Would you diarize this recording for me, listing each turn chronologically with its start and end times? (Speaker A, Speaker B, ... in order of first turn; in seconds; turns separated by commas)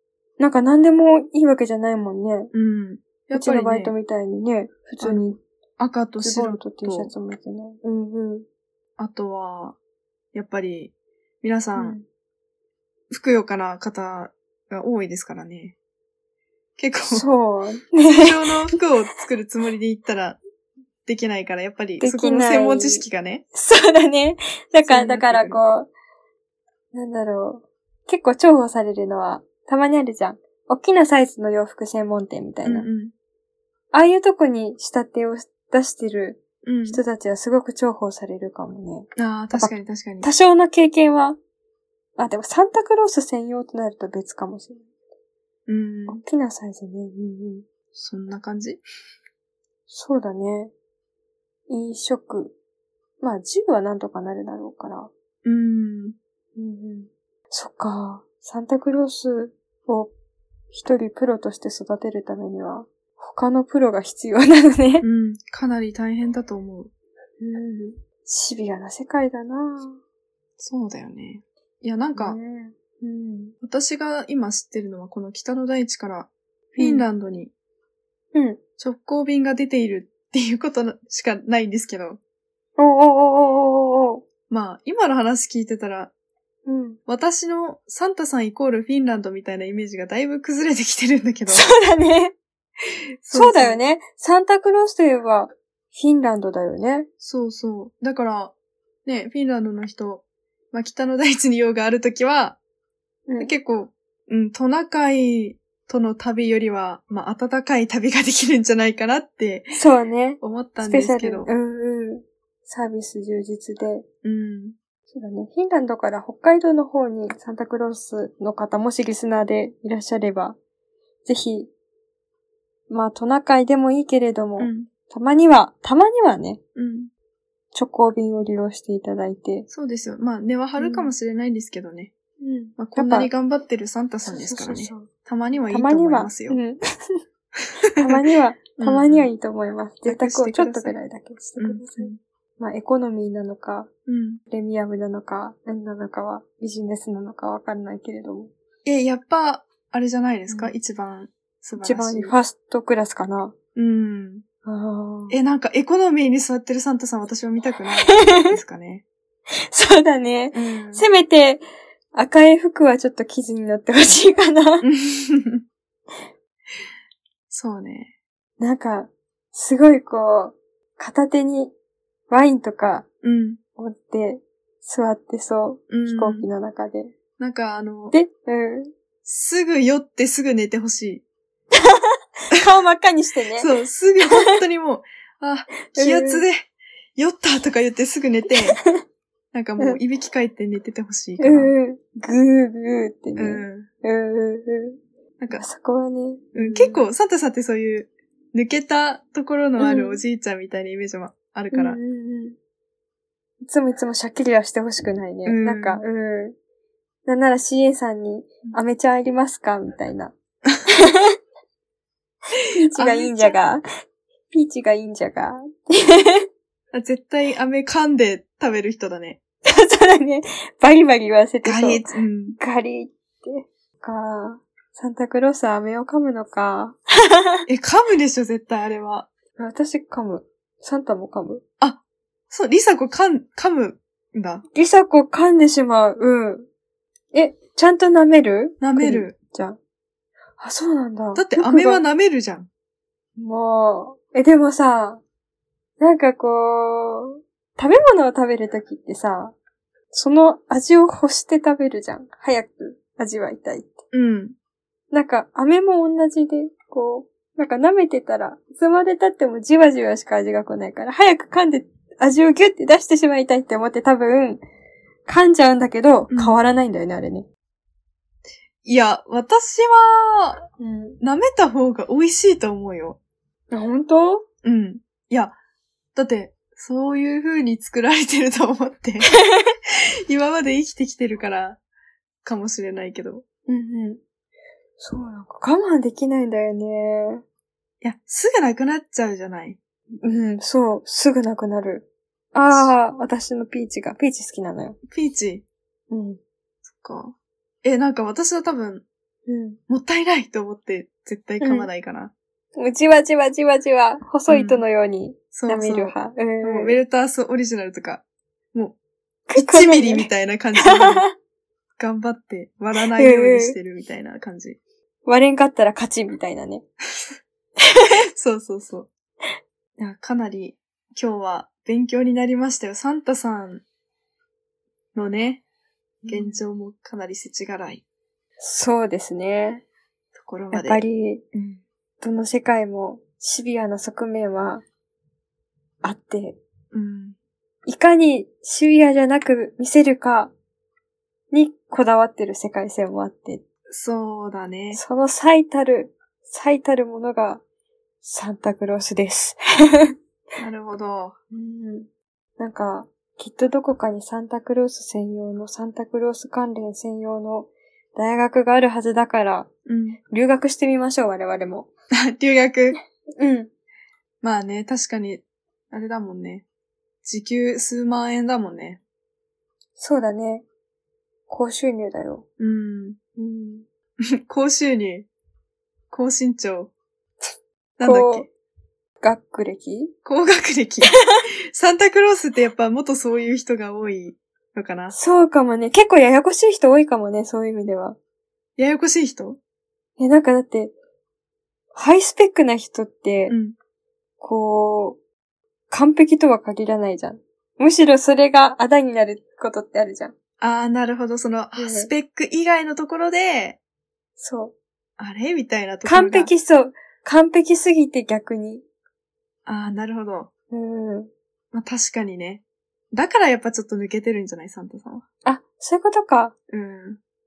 Speaker A: 0.4-2.5, Speaker B: 2.5-3.9, Speaker A: 3.3-5.4, Speaker B: 5.0-7.1, Speaker A: 6.2-8.5, Speaker B: 9.0-9.8, Speaker B: 10.3-12.0, Speaker A: 11.8-12.1, Speaker B: 13.1-15.8, Speaker B: 16.8-17.2, Speaker A: 17.1-18.8, Speaker B: 18.2-20.4, Speaker B: 21.1-23.4, Speaker A: 22.0-25.9, Speaker B: 24.9-25.6, Speaker A: 26.9-32.9, Speaker B: 32.6-33.1, Speaker A: 33.9-41.4, Speaker B: 36.6-37.0, Speaker B: 39.2-40.3, Speaker A: 42.2-44.9, Speaker B: 45.7-46.2, Speaker A: 46.1-47.6, Speaker B: 48.0-48.8, Speaker A: 49.9-50.7, Speaker A: 51.7-52.5, Speaker A: 53.2-55.1, Speaker B: 55.5-56.1, Speaker A: 56.6-60.1, Speaker A: 60.7-65.1, Speaker B: 65.0-66.9, Speaker A: 67.4-70.0, Speaker B: 70.6-72.4, Speaker A: 72.1-73.5, Speaker B: 73.6-77.5, Speaker A: 76.8-77.1, Speaker A: 78.3-78.6, Speaker B: 78.8-82.2, Speaker A: 82.8-84.2, Speaker B: 84.5-86.1, Speaker A: 86.7-87.0, Speaker B: 87.1-91.7, Speaker A: 91.5-92.3, Speaker B: 93.2-93.8, Speaker A: 93.3-97.1, Speaker B: 97.2-98.5, Speaker B: 99.1-102.6, Speaker B: 103.4-109.8, Speaker A: 109.7-114.0, Speaker B: 110.4-111.5, Speaker B: 114.2-114.8, Speaker A: 115.1-120.6, Speaker A: 121.2-121.7, Speaker A: 122.9-126.6, Speaker B: 124.6-124.9, Speaker B: 126.8-127.1, Speaker A: 127.7-129.7, Speaker B: 129.7-132.1, Speaker A: 130.8-131.1, Speaker A: 132.4-133.3, Speaker B: 132.8-136.6, Speaker A: 134.2-135.1, Speaker A: 135.7-137.2, Speaker A: 138.0-143.9, Speaker B: 138.8-139.3, Speaker B: 140.1-141.0, Speaker B: 141.6-142.2, Speaker B: 144.1-144.4, Speaker A: 144.5-148.5, Speaker B: 148.8-152.3, Speaker A: 150.5-150.7, Speaker A: 151.8-153.5, Speaker B: 153.8-154.4, Speaker A: 154.6-155.4, Speaker B: 155.3-159.0, Speaker A: 158.1-158.6, Speaker A: 159.5-161.6, Speaker B: 160.5-161.1, Speaker A: 162.1-164.9, Speaker B: 164.8-165.6, Speaker B: 167.5-168.1, Speaker A: 168.6-171.7, Speaker A: 172.3-173.1, Speaker B: 173.2-173.6, Speaker A: 173.8-177.1, Speaker B: 175.9-176.5, Speaker B: 177.4-178.1, Speaker A: 178.1-178.9, Speaker B: 179.2-181.2, Speaker A: 181.7-183.7, Speaker B: 183.6-188.8, Speaker A: 185.9-186.5, Speaker B: 189.5-191.7, Speaker A: 191.4-195.0, Speaker B: 193.4-193.9, Speaker A: 195.5-197.1, Speaker B: 196.5-202.0, Speaker A: 199.8-200.2, Speaker A: 201.7-202.6, Speaker A: 203.6-206.6, Speaker B: 205.4-206.0, Speaker A: 207.2-210.3, Speaker A: 210.9-211.3, Speaker A: 212.8-213.8, Speaker B: 212.9-213.6, Speaker A: 214.5-216.5, Speaker B: 216.9-219.4, Speaker A: 219.6-222.1, Speaker B: 221.6-222.6, Speaker A: 222.6-227.7, Speaker B: 227.7-229.3, Speaker A: 229.6-231.6, Speaker B: 232.5-234.6, Speaker A: 234.7-236.7, Speaker A: 237.3-239.8, Speaker B: 238.8-239.3, Speaker A: 240.6-242.0, Speaker B: 241.3-242.7, Speaker A: 243.4-245.2, Speaker A: 246.0-249.6, Speaker A: 250.1-254.0, Speaker B: 254.1-254.6, Speaker A: 255.1-264.6, Speaker A: 265.3-267.5, Speaker B: 266.3-266.6, Speaker B: 268.8-270.6, Speaker A: 270.8-271.2, Speaker B: 271.2-273.2, Speaker A: 273.7-274.4, Speaker B: 274.6-275.6, Speaker B: 276.1-279.3, Speaker B: 280.3-281.8, Speaker B: 282.4-283.4, Speaker A: 283.7-284.2, Speaker A: 285.0-287.4, Speaker B: 288.0-289.8, Speaker A: 290.2-295.0, Speaker B: 295.1-295.6, Speaker A: 296.1-296.4, Speaker B: 296.9-299.1, Speaker A: 299.5-299.8, Speaker B: 299.9-302.3, Speaker A: 301.6-301.9, Speaker A: 302.8-307.0, Speaker B: 304.5-304.8, Speaker B: 305.6-308.2, Speaker A: 309.5-311.3, Speaker B: 309.6-311.2, Speaker B: 312.0-314.8, Speaker A: 313.1-313.8, Speaker A: 315.2-316.9, Speaker A: 317.8-318.1, Speaker B: 318.3-319.1, Speaker B: 320.0-323.8, Speaker B: 325.1-325.6, Speaker A: 326.2-326.6, Speaker B: 326.3-328.0, Speaker A: 328.6-329.8, Speaker B: 330.4-331.8, Speaker A: 330.7-331.4, Speaker A: 332.2-334.8, Speaker A: 336.0-336.6, Speaker B: 336.9-337.4, Speaker A: 337.9-340.5, Speaker A: 341.5-343.6, Speaker B: 343.9-345.0, Speaker A: 344.9-347.6, Speaker A: 348.2-350.1, Speaker B: 350.6-351.4, Speaker A: 351.5-359.7, Speaker B: 359.9-360.2, Speaker A: 360.3-361.9, Speaker B: 362.3-363.0, Speaker A: 363.4-363.7, Speaker B: 364.4-366.6, Speaker B: 367.2-369.0, Speaker A: 370.0-370.6, Speaker A: 371.5-372.4, Speaker B: 372.6-373.2, Speaker A: 373.4-373.9, Speaker B: 374.5-375.3, Speaker B: 376.1-376.9, Speaker B: 378.0-378.5, Speaker A: 378.0-378.5, Speaker A: 379.2-380.1, Speaker B: 380.2-381.1, Speaker A: 381.0-381.4, Speaker B: 381.7-385.1, Speaker A: 385.1-388.2, Speaker B: 388.8-389.6, Speaker A: 390.2-390.9, Speaker A: 391.9-393.6, Speaker B: 393.5-393.8, Speaker A: 394.4-395.2, Speaker A: 395.9-400.3, Speaker B: 400.6-403.8, Speaker A: 401.8-402.1, Speaker A: 404.4-404.7, Speaker B: 405.2-406.5, Speaker A: 406.1-408.8, Speaker B: 409.7-410.5, Speaker A: 410.7-411.3, Speaker B: 411.7-415.2, Speaker A: 415.4-416.5, Speaker B: 416.7-417.2